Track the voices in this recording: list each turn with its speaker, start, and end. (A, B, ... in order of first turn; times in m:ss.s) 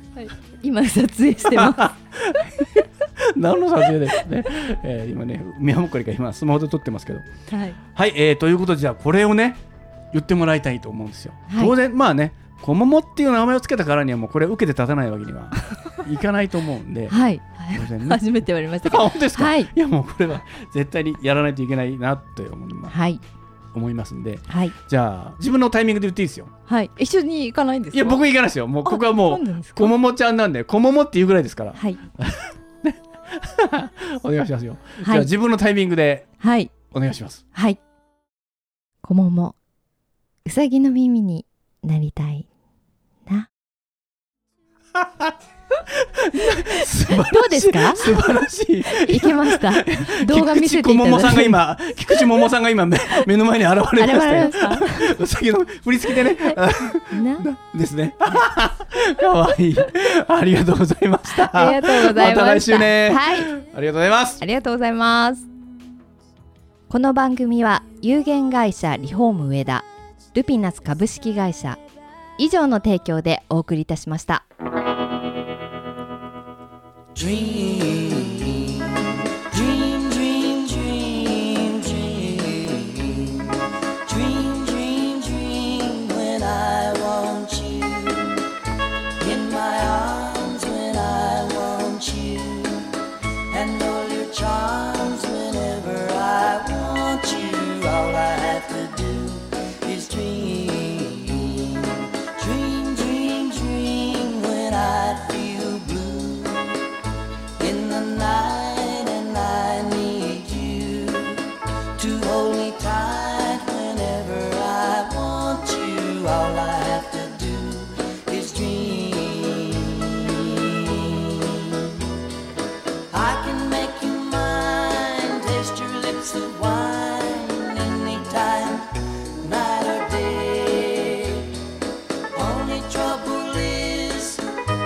0:00.2-0:01.9 A
0:01.5-0:07.3 B
0:07.5-0:07.8 A
0:07.9-0:09.6 B
0:10.1-0:17.2 B
0:11.5-0:11.8 A
0:17.1-0:19.7 A
0:17.7-0:18.2 B
0:18.8-0:23.0 B
0:22.9-0:23.2 A
0:23.7-0:26.5 B
0:24.5-0:24.8 A
0:26.7-0:28.2 A
0:27.9-0:36.3 B
0:28.8-0:30.0 A
0:31.8-0:32.0 A
0:35.0-0:35.3 A
0:36.4-0:36.7 A
0:36.9-0:37.4 B
0:37.5-0:37.8 A
0:39.0-0:39.6 A
0:40.4-0:42.5 A
0:45.0-0:45.3 B
0:45.9-1:04.4 B
0:46.7-0:48.3 A
0:48.8-0:51.6 A
0:54.0-0:55.2 A
0:56.1-0:56.6 A
0:57.1-0:57.5 A
1:01.3-1:03.5 A
1:04.4-1:05.5 A
1:06.9-1:11.8 A
1:12.4-1:14.5 A
1:17.1-1:28.5 C
1:29.2-1:47.0 C
1:47.6-2:01.9 C
2:03.1-2:11.6 C
2:12.3-2:14.5 C